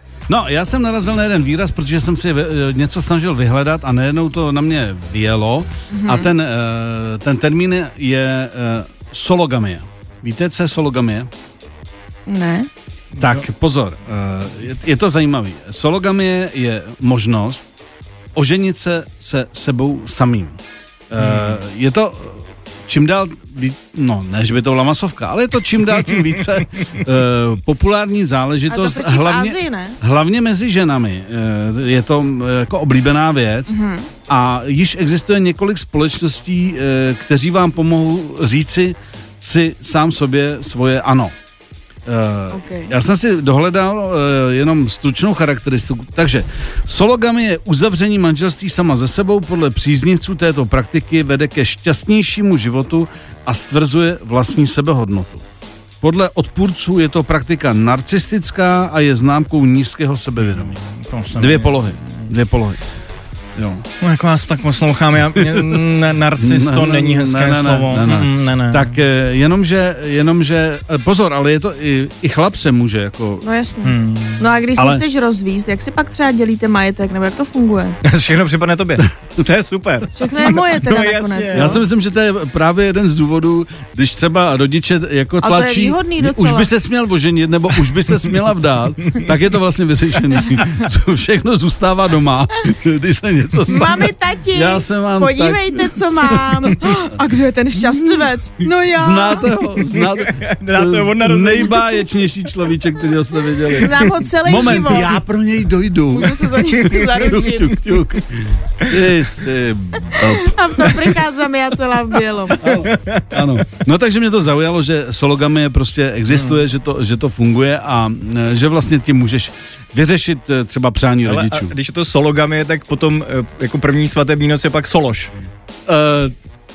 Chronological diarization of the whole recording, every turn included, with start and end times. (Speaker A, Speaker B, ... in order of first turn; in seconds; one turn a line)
Speaker A: 0.3-11.3
Speaker B: 5.9-6.3
Speaker B: 12.3-12.7
Speaker A: 13.2-17.6
Speaker A: 18.3-20.6
Speaker A: 21.1-33.8
Speaker C: 21.2-21.5
Speaker B: 28.7-30.0
Speaker B: 33.7-34.1
Speaker A: 34.3-41.3
Speaker A: 42.1-55.4
Speaker B: 42.5-42.9
Speaker A: 56.0-60.8
Speaker C: 60.8-62.3
Speaker A: 61.4-62.8
Speaker A: 63.6-63.8
Speaker C: 64.0-68.9
Speaker A: 66.3-73.5
Speaker B: 73.4-78.0
Speaker C: 73.8-74.9
Speaker C: 78.0-81.8
Speaker A: 79.0-79.3
Speaker B: 80.1-81.8
Speaker A: 81.5-96.9
Speaker B: 85.4-86.7
Speaker B: 93.7-99.5
Speaker A: 97.8-111.0
Speaker C: 99.8-102.1
Speaker B: 103.7-105.2
Speaker B: 106.1-107.8
Speaker C: 106.7-107.7
Speaker B: 110.2-112.6
Speaker C: 110.8-111.1
Speaker C: 112.5-113.4
Speaker A: 112.6-121.7
Speaker C: 116.3-116.6
Speaker C: 121.2-125.3
Speaker A: 125.9-126.3